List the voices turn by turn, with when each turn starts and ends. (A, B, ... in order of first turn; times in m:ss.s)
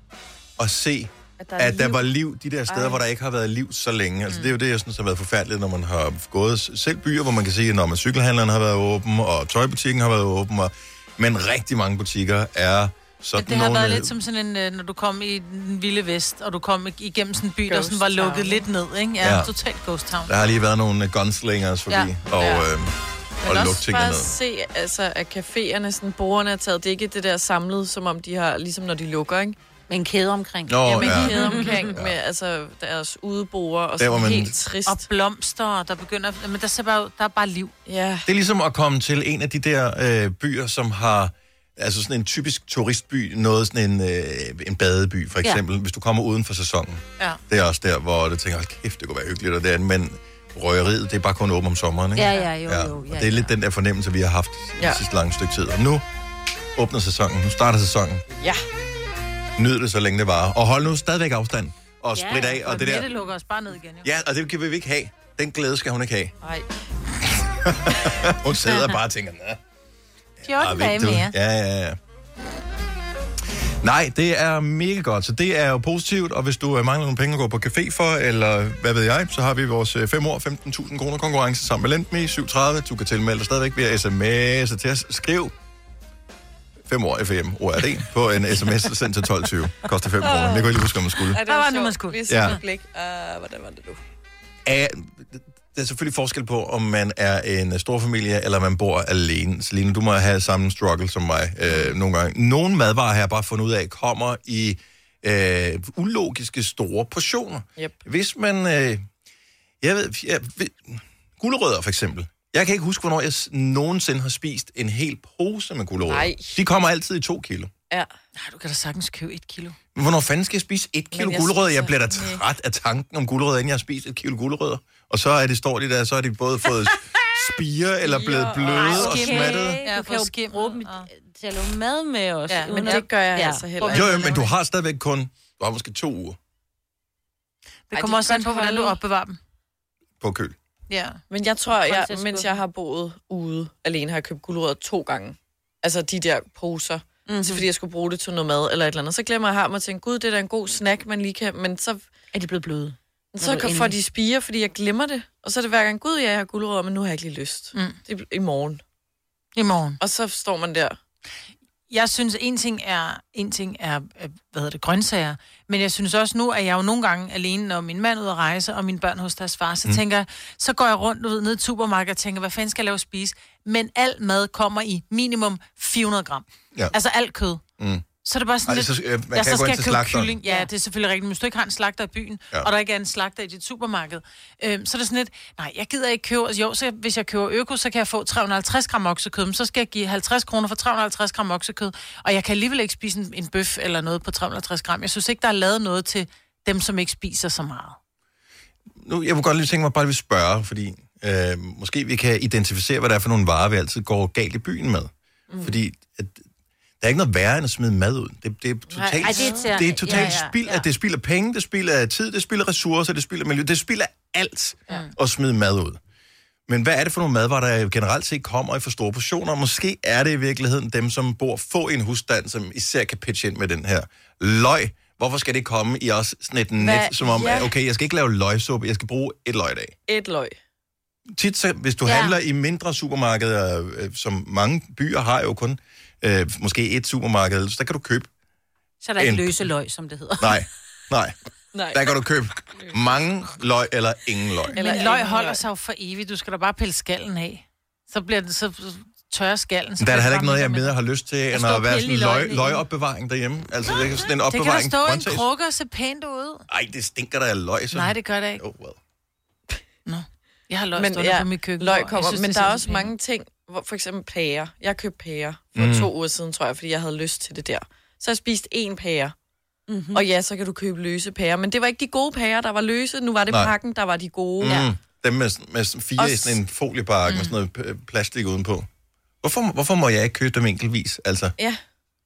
0:00.6-0:14.2 A
0:01.4-0:02.0 B
0:02.7-0:03.0 B
0:13.4-0:20.5 C
0:17.7-0:18.6 B
0:19.2-0:19.5 A
0:20.3-0:24.3 A
0:22.4-0:22.7 B
0:23.5-0:29.6 B
0:29.9-0:31.9 D
0:30.7-0:32.2 A
0:30.9-0:35.0 B
0:31.1-0:31.8 C
0:34.0-0:34.5 A
0:34.8-0:37.7 C
0:37.8-0:38.2 B
0:38.2-0:56.0 A
0:52.2-0:53.5 D
0:56.8-0:58.2 A
0:59.6-1:03.1 A
1:02.2-1:02.5 D
1:02.6-1:04.1 C
1:04.0-1:06.3 A
1:06.4-1:06.7 B
1:07.3-1:09.6 A
1:10.4-1:11.3 C
1:10.4-1:12.0 A
1:13.8-1:25.5 A
1:26.8-1:31.4 A
1:30.2-1:34.0 B
1:31.4-1:32.6 C
1:32.3-1:32.6 A
1:34.6-1:49.0 A
1:49.8-1:57.7 A
1:56.1-1:56.6 B
1:58.4-1:59.8 C
1:59.9-2:09.8 A
2:01.2-2:01.4 B
2:01.4-2:02.4 C
2:08.0-2:09.0 B
2:08.7-2:13.7 D
2:09.0-2:11.0 C
2:12.5-2:13.0 C
2:12.7-2:14.3 B
2:13.8-2:14.5 C
2:13.9-2:16.4 A
2:17.9-2:19.4 C
2:17.9-2:19.0 B
2:20.2-2:20.6 A
2:20.9-2:21.2 C
2:21.3-2:32.0 B
2:21.8-2:22.6 D
2:27.3-2:27.6 D
2:32.3-2:34.0 D
2:33.3-2:38.8 B
2:39.6-2:40.0 C
2:40.0-2:41.0 B
2:41.9-2:57.6 C
2:57.8-2:58.0 A
2:58.2-3:18.0 C
2:58.6-3:00.4 A
3:19.0-3:26.4 A
3:25.5-3:25.8 B
3:27.0-3:36.0 A
3:29.2-3:29.6 C
3:29.2-3:30.9 D
3:36.7-3:49.9 A
3:46.8-3:47.7 B
3:50.1-3:50.6 B
3:51.3-3:58.3 A
3:52.0-3:52.4 D
3:59.0-4:00.6 D
3:59.2-3:59.7 A
4:00.4-4:01.3 A
4:01.7-4:02.1 B
4:01.9-4:04.8 A
4:04.7-4:05.6 B
4:04.8-4:10.9 C
4:10.0-4:15.4 A
4:11.5-4:12.8 D
4:14.5-4:16.6 C
4:16.7-4:19.0 A
4:17.9-4:18.6 C
4:20.0-4:23.1 C
4:20.9-4:29.3 B
4:25.7-4:26.1 A
4:29.9-4:30.3 D
4:30.1-4:34.9 B
4:33.5-4:33.7 A
4:34.6-4:38.9 A
4:36.2-4:36.6 B
4:39.4-4:41.5 A